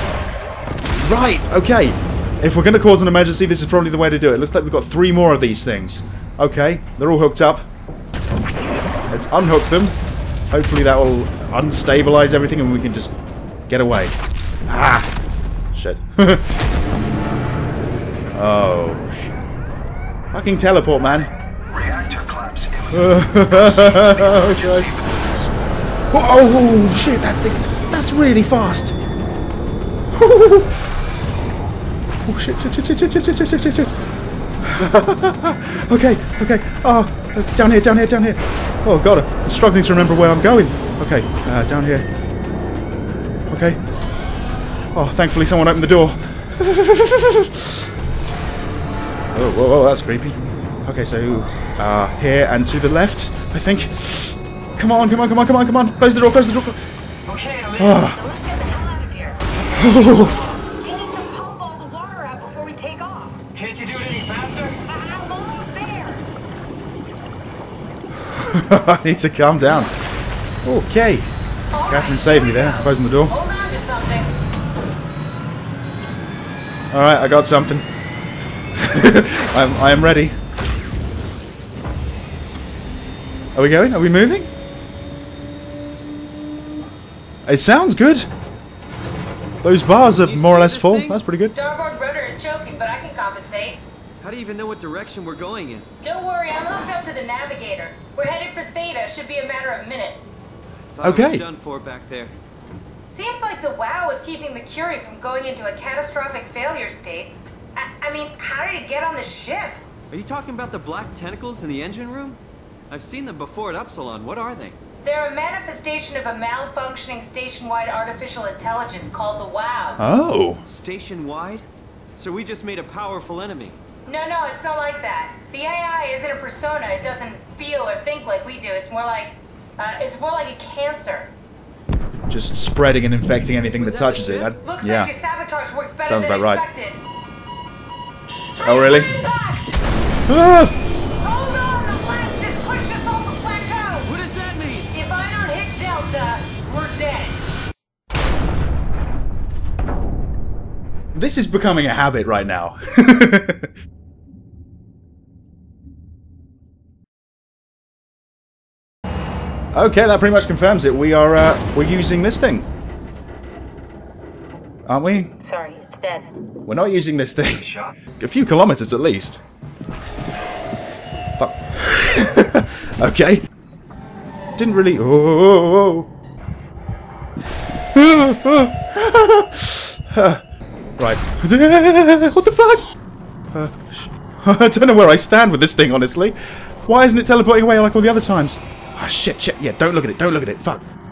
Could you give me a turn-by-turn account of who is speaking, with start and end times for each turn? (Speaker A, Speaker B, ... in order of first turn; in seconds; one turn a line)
Speaker A: 1.0-7.7
Speaker A: 9.1-10.0
Speaker A: 10.5-15.1
Speaker A: 15.7-16.6
Speaker A: 18.3-19.4
Speaker A: 20.3-21.3
Speaker B: 21.7-25.5
Speaker A: 22.9-24.9
Speaker A: 26.1-28.9
Speaker A: 30.1-30.9
Speaker A: 32.2-33.9
Speaker A: 34.6-42.1
Speaker A: 43.5-43.8
Speaker A: 44.9-47.9
Speaker A: 49.3-56.8
Speaker C: 57.2-58.0
Speaker A: 57.8-58.2
Speaker D: 58.1-63.4
Speaker C: 59.5-60.6
Speaker A: 59.7-60.4
Speaker C: 63.5-64.8
Speaker D: 64.8-66.2
Speaker A: 68.2-69.9
Speaker A: 70.6-71.3
Speaker D: 71.7-74.3
Speaker A: 71.9-73.3
Speaker A: 76.9-77.9
Speaker A: 78.7-80.3
Speaker A: 83.5-84.5
Speaker A: 87.5-88.3
Speaker A: 89.6-91.5
Speaker C: 90.2-91.2
Speaker D: 91.5-93.8
Speaker C: 94.2-95.9
Speaker D: 96.0-100.3
Speaker C: 100.9-102.3
Speaker A: 101.0-101.4
Speaker D: 103.1-109.8
Speaker C: 110.1-114.8
Speaker D: 115.0-120.0
Speaker A: 120.0-120.6
Speaker C: 120.7-121.6
Speaker C: 122.2-123.8
Speaker D: 124.0-131.3
Speaker A: 132.3-135.1
Speaker C: 133.7-134.6
Speaker D: 134.6-137.0
Speaker A: 136.0-136.6
Speaker D: 138.6-139.8
Speaker A: 138.6-139.1
Speaker A: 140.3-140.8
Speaker D: 141.2-144.1
Speaker C: 144.1-144.9
Speaker D: 144.9-147.4
Speaker A: 151.1-153.7
Speaker A: 159.7-162.7
Speaker A: 164.8-165.3
Speaker D: 165.4-166.3
Speaker A: 166.6-167.7
Speaker C: 167.5-168.0
Speaker A: 168.2-169.4
Speaker A: 171.4-173.5
Speaker A: 174.6-176.1
Speaker A: 177.9-180.4
Speaker A: 181.0-182.9
Speaker A: 183.5-190.8